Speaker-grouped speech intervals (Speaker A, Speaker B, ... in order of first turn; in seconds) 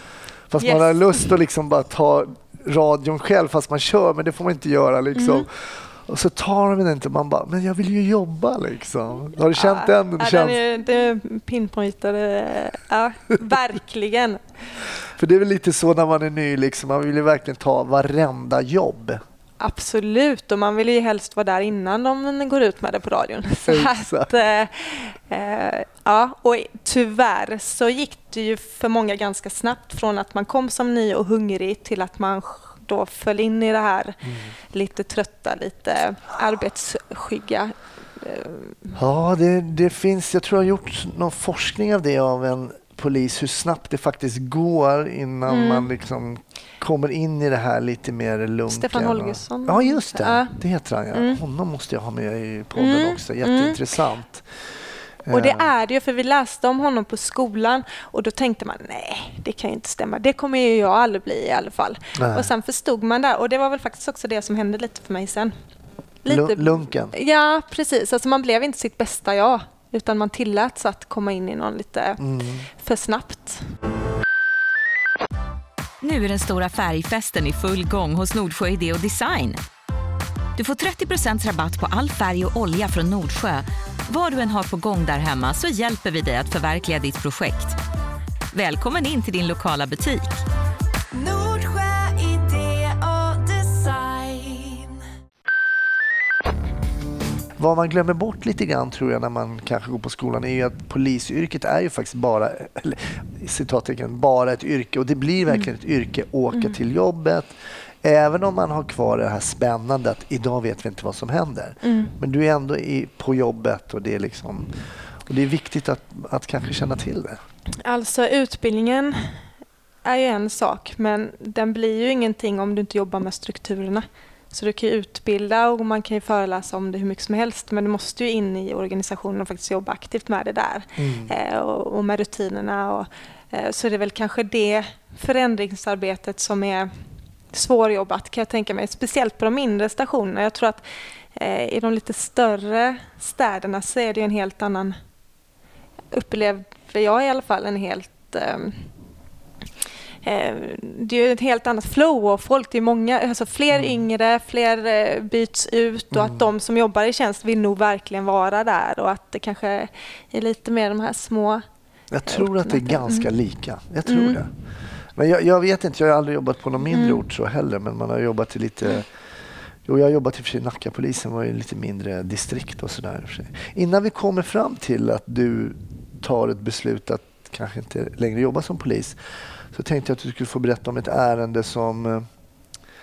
Speaker A: 0.5-10.6, 15.2-19.2, 23.7-24.3, 34.2-34.5, 39.0-54.5, 55.2-55.7, 62.1-62.5, 66.3-67.1, 72.2-72.7, 97.6-114.7, 115.2-117.4, 131.0-131.3, 153.7-154.0, 156.1-156.4, 162.1-164.5, 165.1-169.1, 169.8-179.2, 179.7-182.3
Speaker B: 0.6-1.3, 5.1-5.5, 9.5-14.5, 19.6-39.0, 45.5-45.9, 48.7-50.5, 51.1-51.4, 52.8-53.8, 55.3-65.5, 66.2-73.7, 111.8-112.2, 117.8-119.5, 120.0-136.9, 137.5-145.0, 146.1-148.9, 150.2-161.6, 162.3-163.3, 164.1-164.5, 166.9-167.2
Speaker C: 76.0-79.6, 80.6-87.8, 88.5-90.4, 91.2-94.9